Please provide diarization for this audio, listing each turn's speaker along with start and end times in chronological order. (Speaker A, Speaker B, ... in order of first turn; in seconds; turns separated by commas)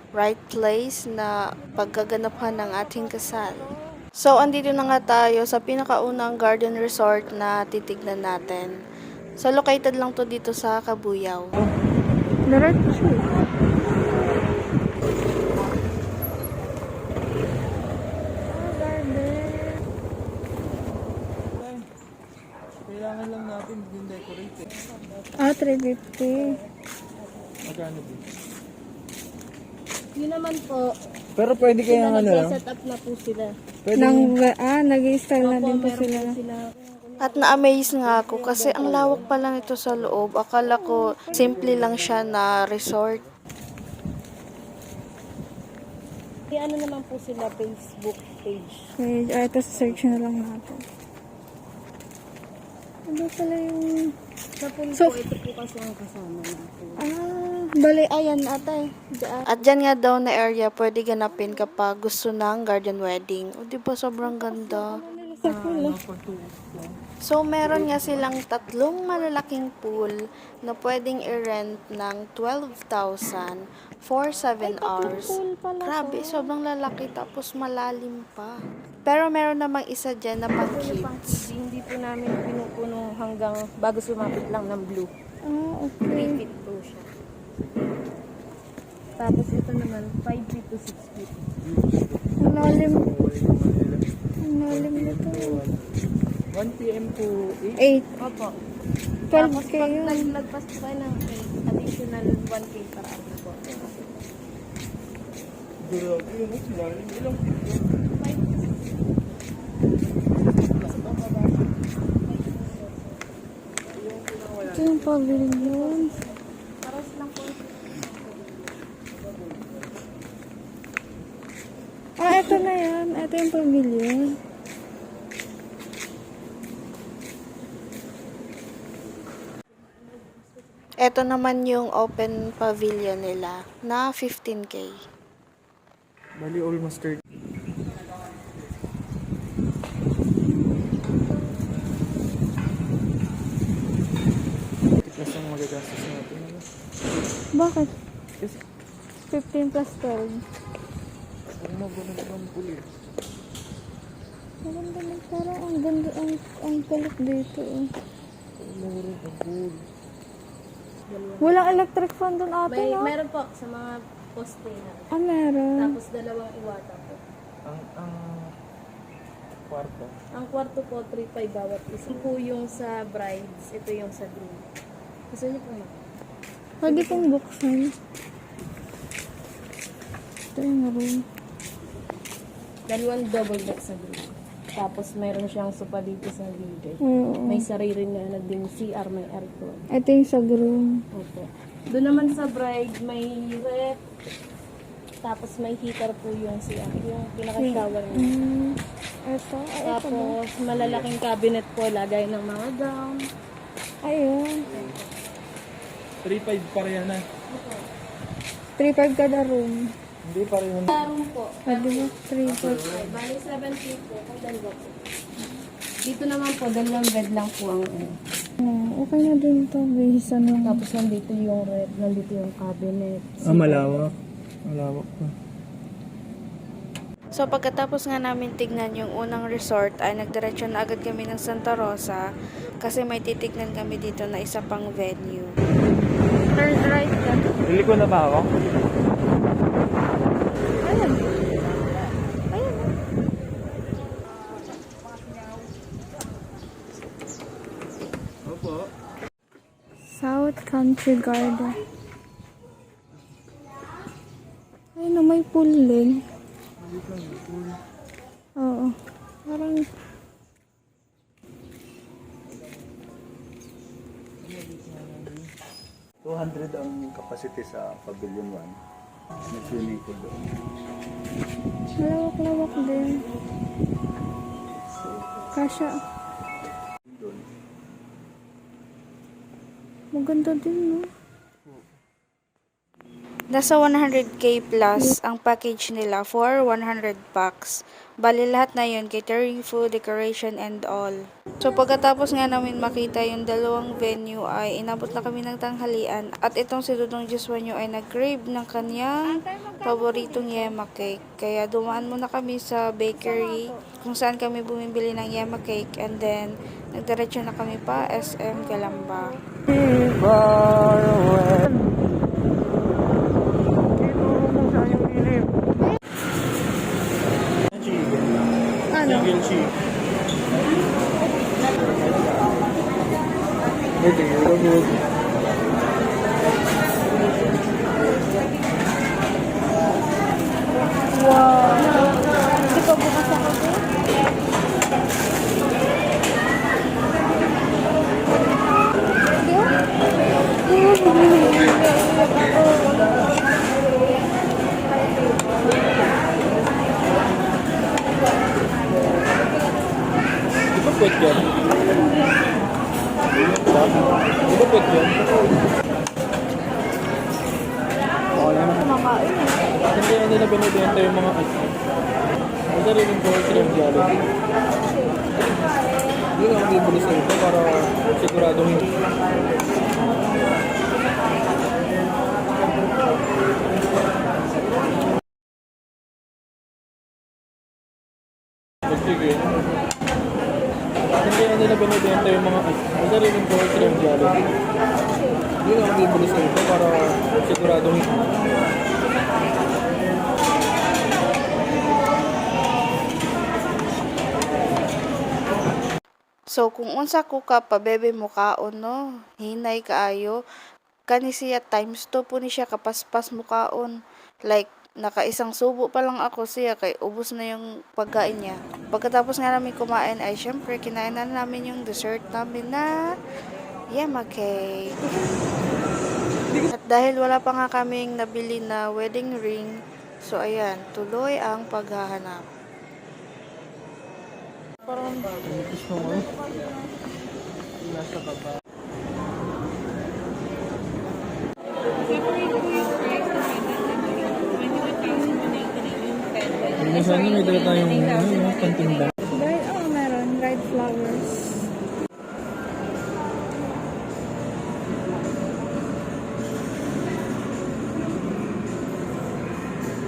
Speaker A: 0.2-3.6, Speaker A: 4.2-8.7, Speaker A: 9.4-11.5, Speaker B: 12.5-13.2, Speaker B: 18.5-19.8, Speaker C: 21.6-21.8, Speaker C: 22.9-24.6, Speaker D: 24.7-25.5, Speaker B: 25.4-26.5, Speaker D: 26.2-26.6, Speaker D: 27.2-27.5, Speaker C: 27.7-28.2, Speaker D: 30.1-30.9, Speaker C: 31.4-32.6, Speaker D: 31.6-33.5, Speaker C: 33.8-34.2, Speaker B: 33.9-36.4, Speaker D: 35.4-40.3, Speaker A: 37.2-43.2, Speaker B: 40.7-41.6, Speaker C: 41.6-42.1, Speaker D: 46.5-48.9, Speaker B: 49.0-50.8, Speaker D: 49.7-50.2, Speaker B: 53.1-54.0, Speaker D: 54.6-57.1, Speaker B: 54.9-55.2, Speaker B: 57.0-59.6, Speaker A: 59.5-64.9, Speaker B: 64.2-66.0, Speaker C: 65.5-67.0, Speaker A: 67.2-81.4, Speaker B: 74.6-76.5, Speaker D: 80.5-85.1, Speaker B: 85.4-86.4, Speaker D: 86.1-87.1, Speaker C: 87.6-87.9, Speaker D: 89.2-91.3, Speaker C: 91.6-94.0, Speaker B: 92.4-93.1, Speaker B: 94.4-95.6, Speaker C: 94.7-95.8, Speaker C: 96.5-97.8, Speaker B: 97.8-98.1, Speaker D: 98.2-98.5, Speaker B: 99.3-100.2, Speaker D: 99.3-104.0, Speaker C: 105.8-107.8, Speaker D: 108.1-109.0, Speaker D: 110.8-113.2, Speaker C: 114.2-114.8, Speaker B: 114.6-116.1, Speaker D: 115.3-116.3, Speaker D: 116.8-118.8, Speaker B: 122.2-124.3, Speaker A: 131.0-135.0, Speaker C: 136.4-137.2, Speaker C: 145.0-146.7, Speaker B: 147.5-147.9, Speaker B: 149.3-150.4, Speaker C: 151.5-152.9, Speaker B: 154.6-157.9, Speaker C: 158.6-159.8, Speaker D: 161.1-161.8, Speaker B: 161.4-163.1, Speaker D: 162.7-165.1, Speaker B: 165.1-166.0, Speaker D: 165.8-167.2, Speaker C: 167.6-168.5, Speaker C: 169.7-170.1, Speaker D: 170.3-174.7, Speaker D: 175.3-175.9, Speaker B: 176.8-177.9, Speaker D: 176.8-177.3, Speaker B: 180.5-181.2, Speaker D: 182.9-189.8, Speaker B: 187.0-187.6, Speaker B: 189.9-191.0, Speaker D: 191.2-193.9, Speaker D: 195.2-198.3, Speaker B: 197.6-200.3, Speaker D: 199.8-203.2, Speaker C: 200.7-201.1, Speaker B: 204.0-204.7, Speaker D: 204.7-205.1, Speaker C: 206.2-207.2, Speaker D: 207.5-207.8, Speaker B: 208.8-209.9, Speaker C: 210.2-211.0, Speaker D: 210.9-212.1, Speaker B: 211.7-212.8, Speaker C: 212.5-213.0, Speaker D: 212.8-215.0, Speaker D: 216.0-218.1, Speaker B: 218.6-220.8, Speaker D: 220.6-224.0, Speaker C: 223.5-224.1, Speaker C: 224.7-225.3, Speaker A: 227.3-232.2, Speaker A: 232.8-235.5, Speaker B: 236.6-237.4, Speaker C: 237.6-238.5, Speaker B: 240.8-241.3, Speaker B: 242.5-242.9, Speaker C: 248.4-248.9, Speaker B: 250.1-251.7, Speaker B: 255.0-256.2, Speaker C: 256.8-257.8, Speaker B: 258.6-258.9, Speaker B: 259.5-259.9, Speaker C: 264.4-265.5, Speaker E: 266.2-268.8, Speaker E: 269.5-270.4, Speaker B: 272.0-273.2, Speaker B: 275.5-275.9, Speaker E: 277.1-277.4, Speaker B: 280.1-281.1, Speaker A: 283.5-309.3, Speaker B: 299.5-300.2, Speaker C: 317.7-318.3, Speaker B: 318.9-319.3, Speaker C: 319.0-319.7, Speaker C: 324.0-325.0, Speaker B: 331.2-332.1, Speaker B: 332.7-333.8, Speaker B: 339.4-339.7, Speaker B: 340.7-343.1, Speaker C: 350.7-351.5, Speaker C: 353.7-355.2, Speaker C: 358.4-358.9, Speaker C: 359.8-361.8, Speaker C: 362.7-364.2, Speaker C: 365.4-365.7, Speaker C: 366.3-369.0, Speaker C: 378.9-379.6, Speaker C: 381.1-384.4, Speaker C: 385.6-388.1, Speaker A: 396.5-400.4, Speaker A: 401.1-403.9, Speaker A: 404.5-412.9, Speaker A: 413.9-414.9, Speaker A: 416.7-422.4, Speaker C: 425.3-426.3, Speaker C: 436.8-439.1, Speaker B: 439.3-441.7